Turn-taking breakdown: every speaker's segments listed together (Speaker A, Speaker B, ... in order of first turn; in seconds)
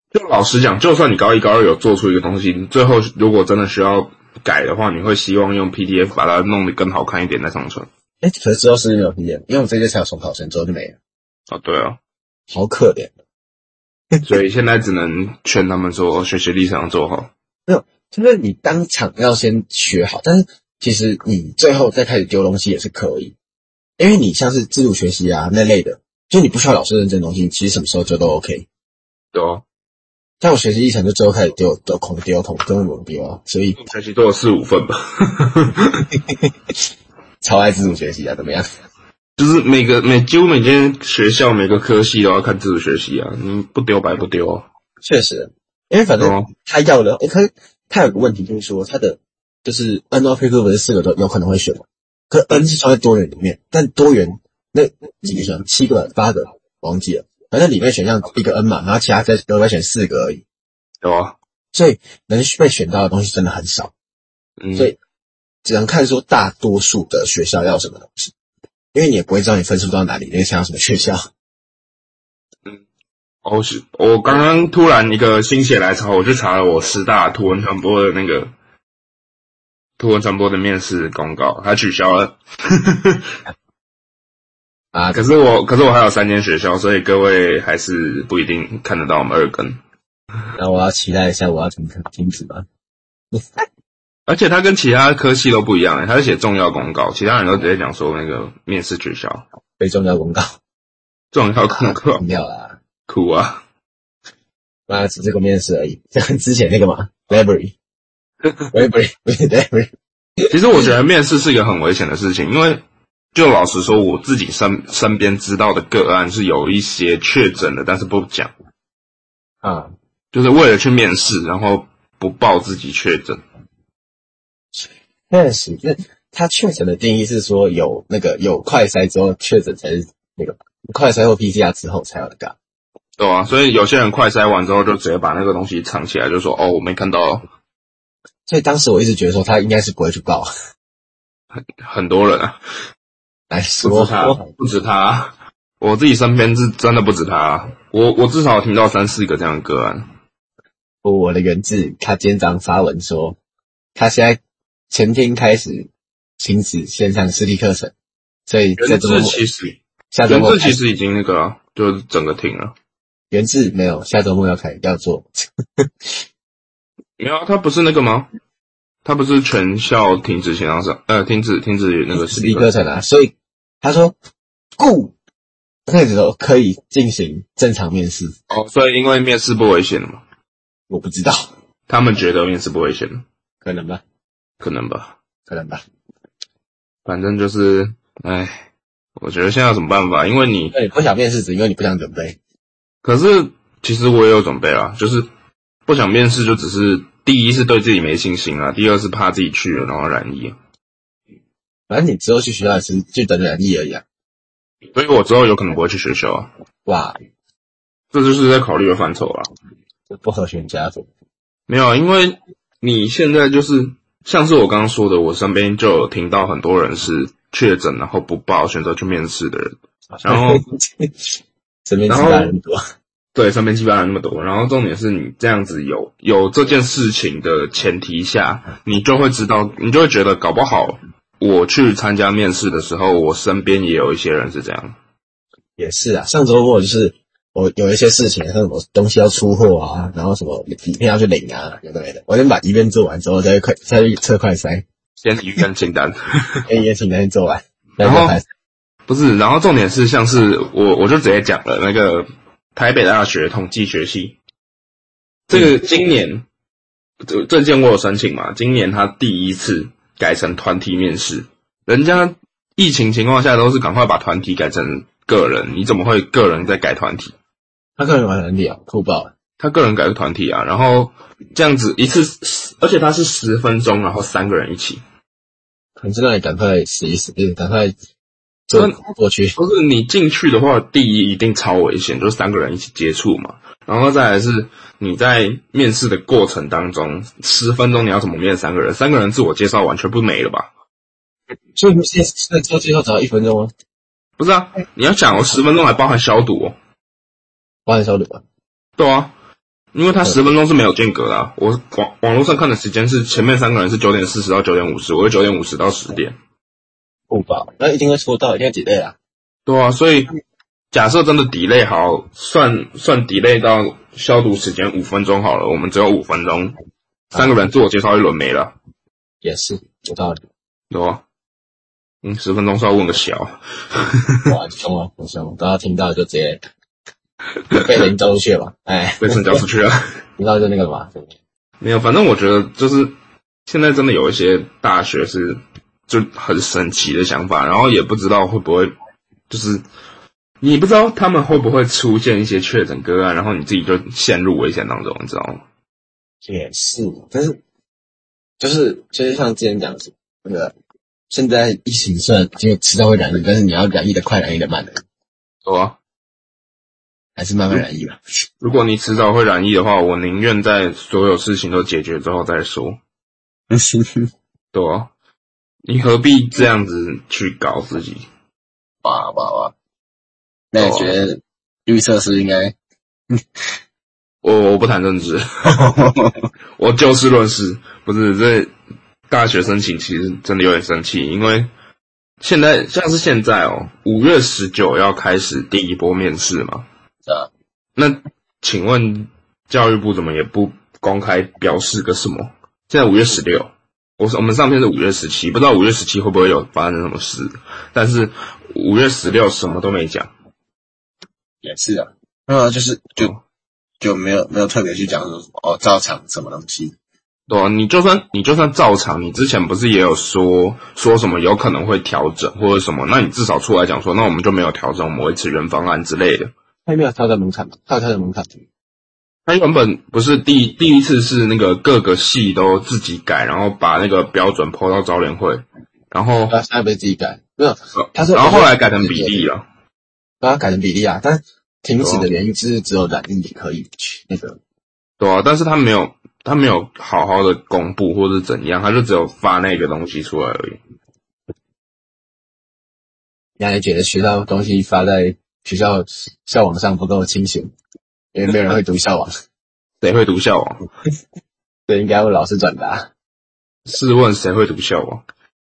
Speaker A: 0.1-7.9, 11.5-12.0, 14.2-17.3, 29.3-29.6, 33.8-36.1, 39.4-44.6, 46.2-46.5, 61.0-61.4, 64.6-64.9, 73.4-78.5, 80.0-83.3, 85.1-89.8, 94.3-99.4, 101.3-102.2, 103.1-103.6, 110.5-112.8, 113.3-118.5, 120.3-123.4, 133.2-137.4, 141.8-142.6, 143.8-150.1, 158.8-162.7, 167.2-168.3, 169.0-172.7, 178.5-180.2, 181.9-183.2, 184.6-185.2, 187.1-190.7, 193.0-195.2, 195.9-200.6, 204.9-206.5, 208.1-209.5, 211.7-220.6, 222.1-222.5, 223.3-234.9, 245.2-246.7, 248.0-248.4, 249.1-254.4, 255.5-256.4, 257.2-267.3, 269.6-275.0, 279.6-290.7, 294.4-296.7, 299.0-299.3, 299.9-306.4, 309.6-310.3, 310.9-316.8, 317.3-318.8, 320.9-321.2, 322.2-324.5, 329.2-330.0, 331.8-333.1, 333.7-338.9, 339.5-339.8, 340.6-345.6, 355.6-356.0, 358.6-363.0, 364.7-365.1, 365.9-368.2, 370.8-371.1, 374.4-376.1, 376.8-378.7, 379.3-381.7, 382.4-386.9, 388.0-400.3, 407.5-416.5, 419.4-426.6, 428.0-429.6, 432.0-432.3, 435.2-440.8, 450.0-450.8, 453.9-455.2
Speaker B: 8.2-11.0, 12.5-13.1, 17.7-23.3, 24.0-28.7, 30.4-33.8, 37.4-38.7, 45.0-60.4, 61.7-63.9, 65.6-68.3, 68.9-71.2, 84.9-85.2, 90.5-92.7, 99.8-100.4, 101.7-102.8, 104.9-107.7, 108.7-110.8, 119.6-119.9, 124.8-132.5, 138.5-140.5, 143.5-144.5, 151.0-153.4, 153.9-154.4, 154.9-157.9, 158.5-159.4, 160.1-160.8, 163.3-166.2, 172.1-174.1, 174.8-175.1, 175.9-178.3, 180.9-181.5, 183.6-184.0, 185.5-185.8, 190.7-192.4, 201.9-204.0, 206.8-207.2, 210.1-211.1, 220.2-221.1, 221.9-222.8, 235.8-244.8, 246.7-248.4, 268.0-269.3, 276.0-277.9, 278.7-279.6, 291.8-293.7, 297.9-298.4, 307.3-309.1, 317.3-317.6, 319.4-320.4, 324.5-326.6, 327.7-329.6, 330.4-331.3, 346.4-347.6, 348.6-350.7, 351.3-355.0, 357.4-358.2, 363.7-364.3, 369.0-369.7, 370.7-372.8, 375.7-376.4, 401.6-403.3, 404.0-406.9, 416.9-418.6, 426.5-429.5, 430.4-434.6, 443.6-447.7, 448.3-449.3, 451.9-453.1